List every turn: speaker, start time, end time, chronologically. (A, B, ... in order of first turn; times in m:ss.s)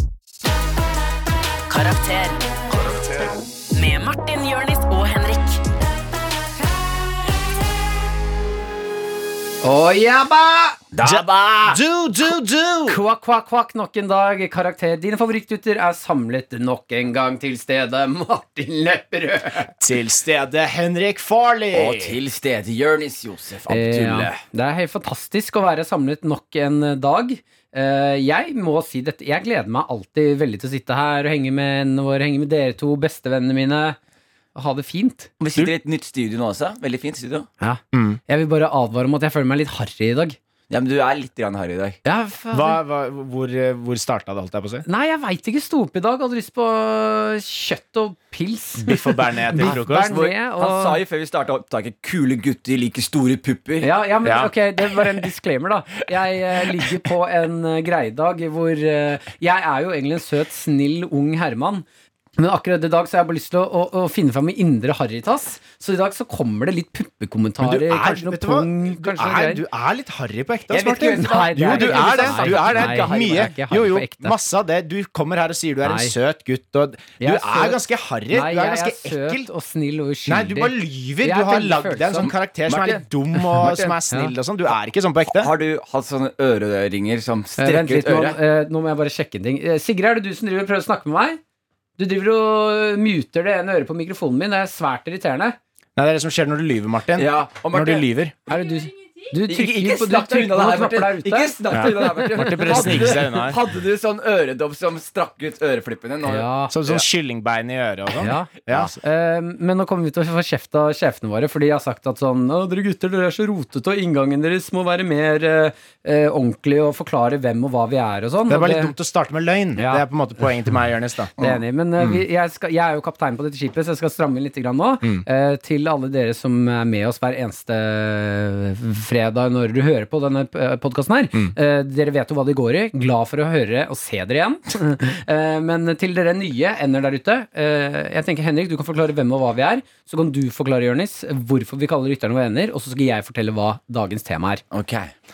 0:01.7-0:02.7 A
0:03.7-0:05.6 A
0:09.6-0:10.9 B
0:11.0-0:11.8 C
0:11.0-0:13.0 D
0:12.9-0:19.7 B
0:19.8-0:22.2 D
0:21.7-0:24.4 C
0:23.7-0:34.0 B
0:34.6-0:35.3 B
0:35.4-0:37.5 C
0:37.6-0:40.4 B
0:37.9-0:38.2 D
0:40.7-0:42.0 C
0:42.0-0:42.8 B
0:42.5-0:44.8 D
0:44.8-0:51.0 B
0:48.8-0:50.2 D
0:49.6-0:53.9 C
0:53.8-1:01.8 B
0:54.2-0:54.5 D
1:02.4-1:09.6 B
1:07.6-1:19.5 D
1:10.7-1:13.5 C
1:10.8-1:14.4 B
1:15.8-1:16.1 B
1:17.2-1:22.3 B
1:20.3-1:25.5 D
1:22.2-1:23.0 C
1:23.4-1:24.3 B
1:25.3-1:28.4 C
1:27.6-1:31.4 B
1:32.0-1:35.6 B
1:36.0-1:38.3 D
1:37.2-1:38.1 C
1:38.5-1:43.1 B
1:39.5-1:47.0 C
1:41.7-1:43.6 D
1:46.2-1:46.7 B
1:46.7-1:49.0 D
1:48.2-1:58.9 B
1:58.5-2:01.3 D
1:59.8-2:00.0 B
2:01.4-2:24.6 B
2:02.0-2:02.2 D
2:24.7-2:25.1 C